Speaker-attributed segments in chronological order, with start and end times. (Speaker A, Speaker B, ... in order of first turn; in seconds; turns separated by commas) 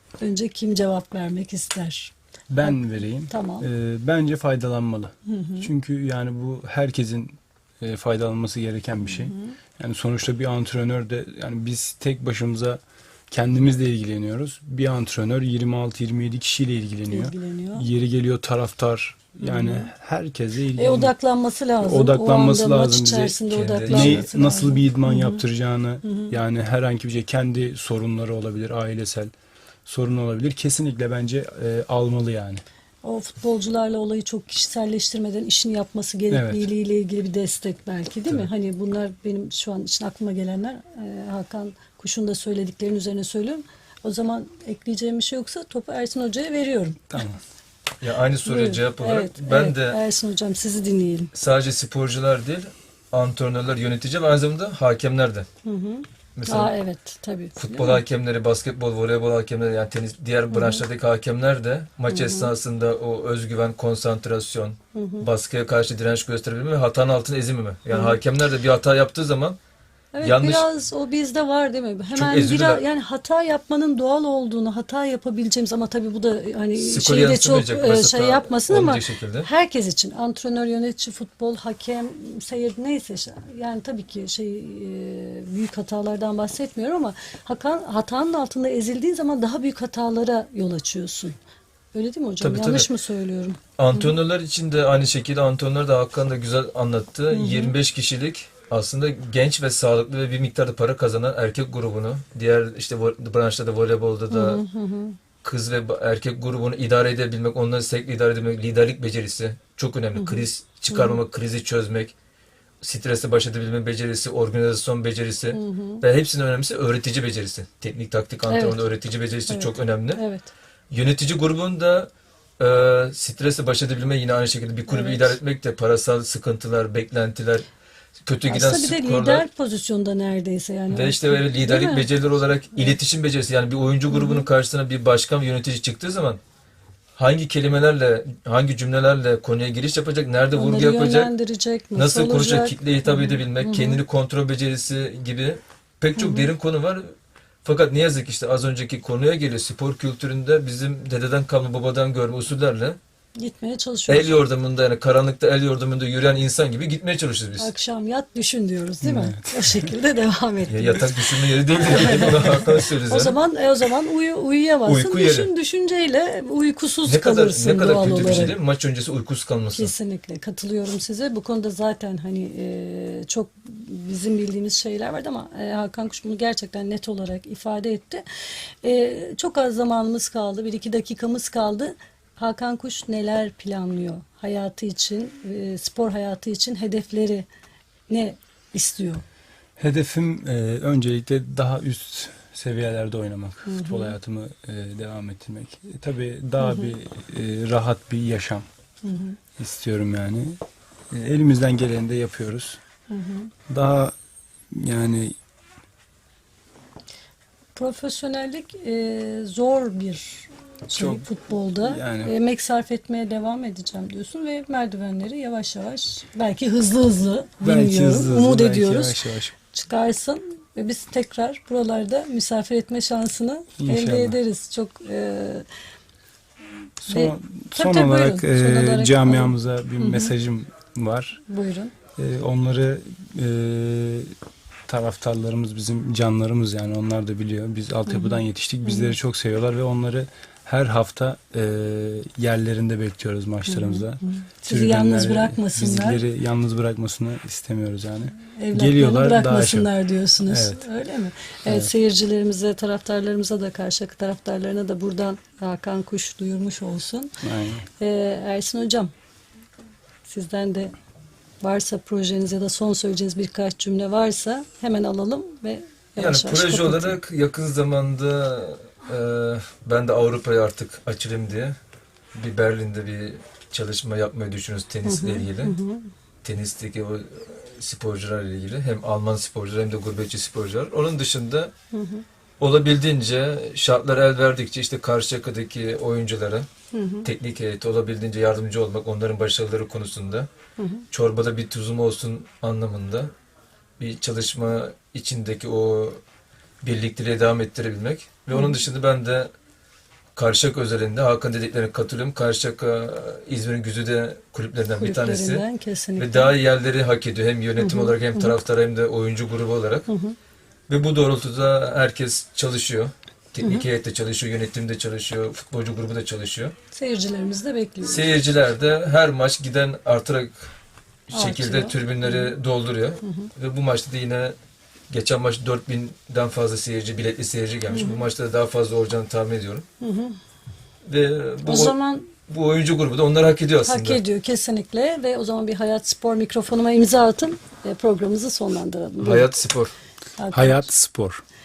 Speaker A: 0.2-3.7, Speaker B: 2.5-21.1, Speaker A: 5.3-5.7, Speaker A: 9.0-9.6, Speaker A: 17.1-17.9, Speaker A: 19.4-19.9, Speaker A: 20.8-25.4, Speaker B: 21.8-29.3, Speaker C: 23.5-24.3, Speaker A: 26.0-26.4, Speaker B: 29.9-32.6, Speaker A: 33.0-47.2, Speaker B: 36.3-36.7, Speaker B: 47.1-47.4, Speaker C: 48.0-50.0, Speaker A: 48.5-51.3, Speaker C: 51.3-55.5, Speaker A: 55.6-58.0, Speaker C: 56.4-56.7, Speaker C: 57.6-69.6, Speaker A: 60.5-60.8, Speaker A: 62.1-62.5, Speaker A: 64.9-65.3, Speaker A: 67.9-68.2, Speaker A: 70.1-91.4, Speaker C: 70.2-70.7, Speaker C: 72.1-72.8, Speaker C: 76.8-79.5, Speaker A: 91.9-94.2, Speaker C: 92.4-92.9, Speaker C: 93.8-104.6, Speaker A: 97.3-97.8, Speaker A: 104.3-105.2, Speaker C: 105.4-112.1, Speaker A: 110.2-111.2, Speaker C: 112.8-120.2, Speaker A: 115.5-116.0, Speaker A: 118.5-118.9, Speaker A: 119.5-120.5, Speaker C: 120.9-127.7, Speaker A: 124.9-125.4, Speaker C: 128.3-129.4, Speaker A: 128.5-132.1, Speaker C: 130.9-136.4, Speaker A: 134.1-134.5, Speaker C: 137.2-141.3, Speaker A: 140.5-144.0, Speaker C: 142.0-153.0, Speaker A: 146.2-146.5, Speaker A: 153.4-154.4, Speaker C: 154.1-157.7, Speaker A: 157.6-168.6, Speaker B: 159.0-159.9, Speaker C: 160.7-163.4, Speaker C: 164.9-165.5, Speaker C: 167.1-169.9, Speaker B: 168.2-168.5, Speaker A: 169.7-178.2, Speaker A: 178.8-187.5, Speaker A: 188.1-189.2, Speaker B: 189.8-198.7, Speaker A: 193.7-194.2, Speaker A: 196.6-197.0, Speaker A: 199.0-199.4, Speaker B: 199.6-200.6, Speaker B: 201.1-202.8, Speaker A: 203.1-203.5, Speaker B: 203.7-204.1, Speaker B: 204.7-205.4, Speaker A: 207.8-219.2, Speaker B: 210.9-211.3, Speaker B: 211.8-212.3, Speaker B: 217.6-219.6, Speaker A: 219.7-225.7, Speaker B: 223.8-224.4, Speaker B: 227.0-231.4, Speaker A: 227.1-230.3, Speaker A: 231.5-231.9, Speaker B: 232.2-234.3, Speaker B: 234.9-249.9, Speaker A: 238.1-239.2, Speaker A: 243.7-246.2, Speaker A: 248.5-257.3, Speaker B: 250.5-250.9, Speaker B: 251.7-251.9, Speaker B: 257.4-257.9, Speaker A: 258.0-259.1, Speaker A: 260.3-260.9, Speaker A: 261.6-267.2, Speaker C: 266.2-271.8, Speaker C: 272.3-275.8, Speaker A: 275.1-276.1, Speaker C: 276.4-281.7, Speaker A: 281.9-282.2, Speaker C: 282.6-286.7, Speaker A: 286.9-287.3, Speaker C: 287.2-290.5, Speaker A: 290.8-291.1, Speaker C: 291.1-293.3, Speaker C: 294.0-296.2, Speaker C: 296.8-299.5, Speaker A: 298.5-298.9, Speaker C: 300.4-305.6, Speaker A: 305.0-306.5, Speaker C: 306.2-310.1, Speaker A: 307.8-308.6, Speaker A: 310.1-310.4, Speaker C: 310.9-316.7, Speaker A: 316.9-318.4, Speaker C: 318.0-320.7, Speaker C: 321.3-324.6, Speaker A: 321.3-322.6, Speaker A: 323.2-323.5, Speaker C: 325.1-329.9, Speaker A: 327.9-328.3, Speaker A: 330.0-330.4, Speaker C: 331.1-331.9, Speaker A: 331.6-332.3, Speaker C: 332.5-334.2, Speaker A: 333.9-339.5, Speaker C: 339.2-339.9, Speaker A: 340.4-340.9, Speaker B: 340.5-341.4